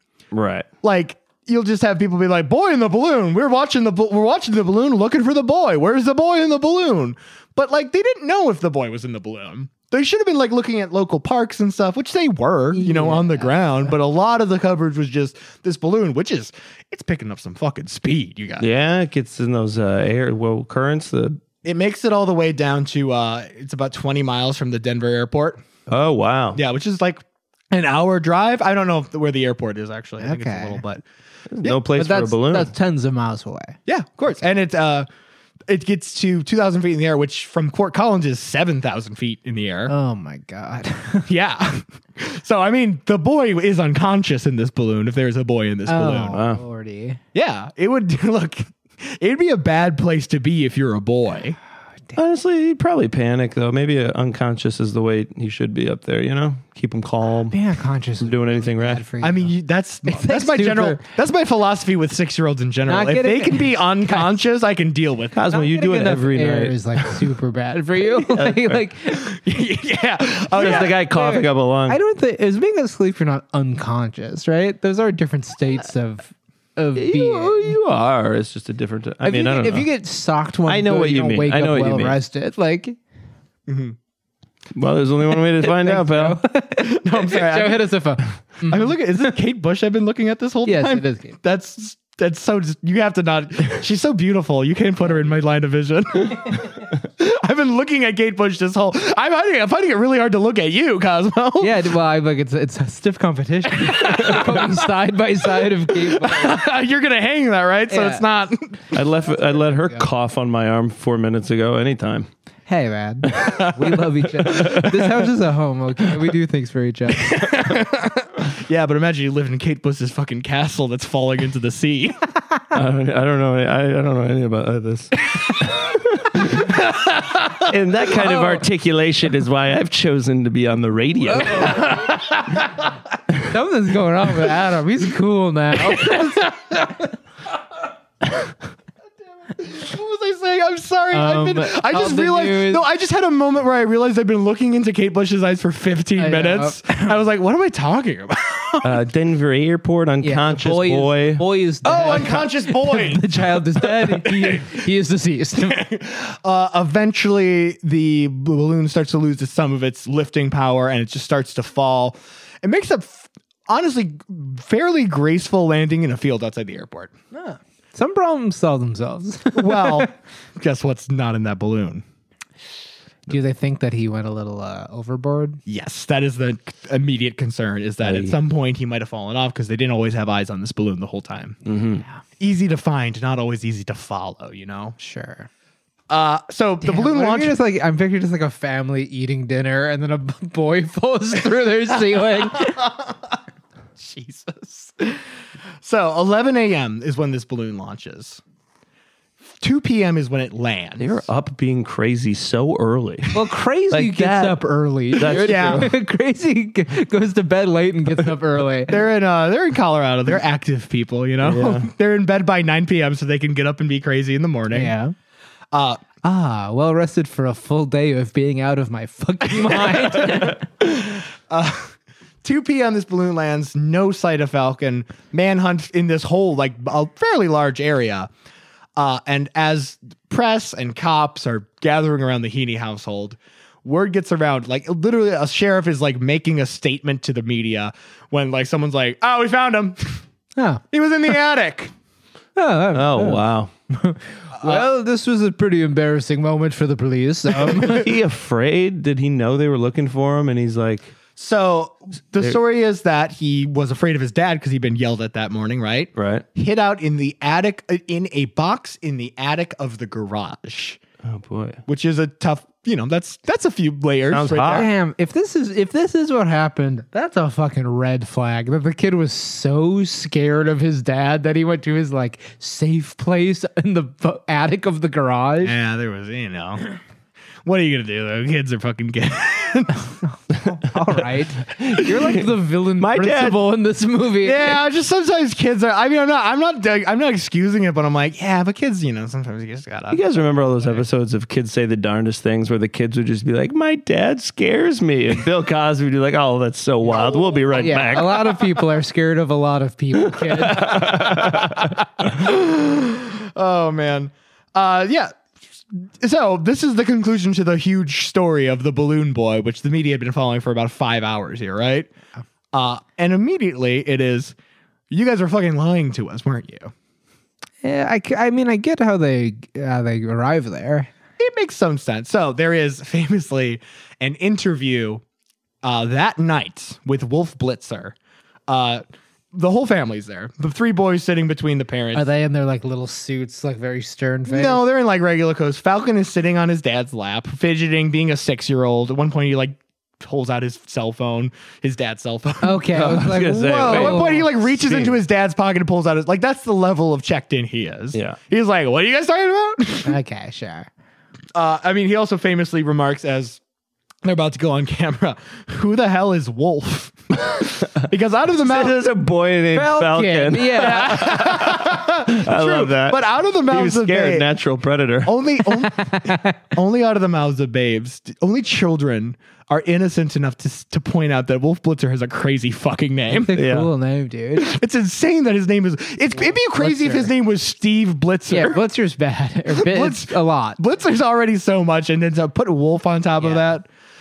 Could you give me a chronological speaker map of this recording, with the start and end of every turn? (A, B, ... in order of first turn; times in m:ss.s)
0:00.3-0:00.7 A
0:00.8-0:18.7 B
0:12.7-0:13.9 C
0:18.6-0:21.4 A
0:21.6-0:25.6 B
0:25.9-0:26.6 A
0:26.5-0:31.0 B
0:30.2-0:30.8 C
0:31.5-0:32.7 A
0:31.7-0:33.8 C
0:33.9-0:35.1 B
0:35.7-0:39.9 B
0:39.9-0:41.3 C
0:41.3-0:46.4 B
0:45.9-0:47.2 C
0:46.3-0:46.6 A
0:47.3-0:51.6 B
0:52.2-0:57.6 A
0:57.5-0:59.5 C
0:58.2-0:59.0 A
0:59.2-1:05.4 B
1:00.1-1:01.0 C
1:02.9-1:04.4 C
1:05.3-1:06.8 A
1:05.5-1:09.3 C
1:08.0-1:08.8 A
1:09.1-1:11.0 B
1:10.5-1:12.0 A
1:10.6-1:17.8 C
1:17.0-1:19.9 A
1:19.2-1:23.0 C
1:20.7-1:22.2 A
1:23.7-1:24.0 B
1:24.7-1:26.4 A
1:25.6-1:28.9 C
1:26.8-1:27.9 B
1:28.7-1:41.8 B
1:30.7-1:31.4 C
1:41.6-1:46.6 C
1:43.8-1:44.8 B
1:46.0-1:48.8 B
1:47.9-1:48.2 C
1:48.9-1:52.3 A
1:52.7-1:57.5 C
1:53.4-1:53.7 B
1:54.4-1:55.0 A
1:57.2-2:02.2 B
2:02.7-2:06.8 A
2:07.6-2:11.8 A
2:11.6-2:12.6 B
2:13.5-2:16.5 C
2:15.9-2:16.9 B
2:19.5-2:29.0 B
2:21.1-2:22.8 C
2:26.2-2:27.2 C
2:28.8-2:31.4 A
2:30.2-2:35.8 C
2:31.8-2:34.8 B
2:35.6-2:47.1 B
2:47.3-2:50.1 C
2:49.5-2:52.0 B
2:53.3-2:55.6 C
2:55.7-3:01.6 B
2:58.0-2:58.4 A
3:01.6-3:02.0 A
3:02.4-3:05.0 B
3:05.0-3:05.5 C
3:06.1-3:07.6 B
3:06.8-3:12.8 C
3:12.1-3:13.2 B
3:14.0-3:15.2 B
3:15.8-3:18.4 B
3:19.6-3:21.2 B
3:21.0-3:24.6 A
3:23.3-3:29.0 C
3:25.1-3:25.9 A
3:25.2-3:25.9 B
3:28.9-3:34.9 B
3:31.4-3:31.9 A
3:34.7-3:35.1 C
3:35.7-3:36.0 B
3:36.2-3:40.7 C
3:39.6-3:48.3 B
3:49.0-4:00.2 B
4:00.6-4:00.8 C
4:00.9-4:01.9 B
4:02.6-4:08.1 C
4:02.9-4:03.7 A
4:04.6-4:04.9 B
4:07.8-4:11.1 A
4:11.4-4:21.0 B
4:16.2-4:16.4 A
4:21.2-4:21.8 A
4:21.9-4:24.9 B
4:24.3-4:24.9 A
4:24.7-4:35.8 C
4:35.6-4:36.8 B
4:37.6-4:40.2 B
4:40.2-4:44.8 C
4:41.8-4:42.4 A
4:43.0-4:43.6 A
4:44.4-4:50.3 B
4:50.1-4:58.8 A
4:57.1-4:57.6 B
4:57.2-5:01.2 C
5:00.3-5:01.9 A
5:01.1-5:05.4 B
5:05.9-5:12.1 B
5:12.7-5:14.6 B
5:15.1-5:16.9 B
5:17.8-5:21.1 C
5:21.4-5:25.2 B
5:25.8-5:28.2 B
5:28.7-5:32.3 B
5:32.2-5:34.8 C
5:34.5-5:50.2 B
5:42.6-5:44.5 C
5:42.9-5:45.2 A
5:50.0-5:50.9 C
5:51.6-5:53.6 B
5:54.2-5:59.1 B
5:58.6-6:05.3 A
5:59.7-6:01.5 C
6:00.7-6:04.5 B
6:05.2-6:13.6 B
6:05.8-6:06.6 C
6:13.3-6:14.7 C
6:13.5-6:13.9 A
6:14.6-6:18.8 B
6:16.4-6:17.3 C
6:18.5-6:20.8 C
6:19.8-6:23.9 B
6:23.4-6:23.7 C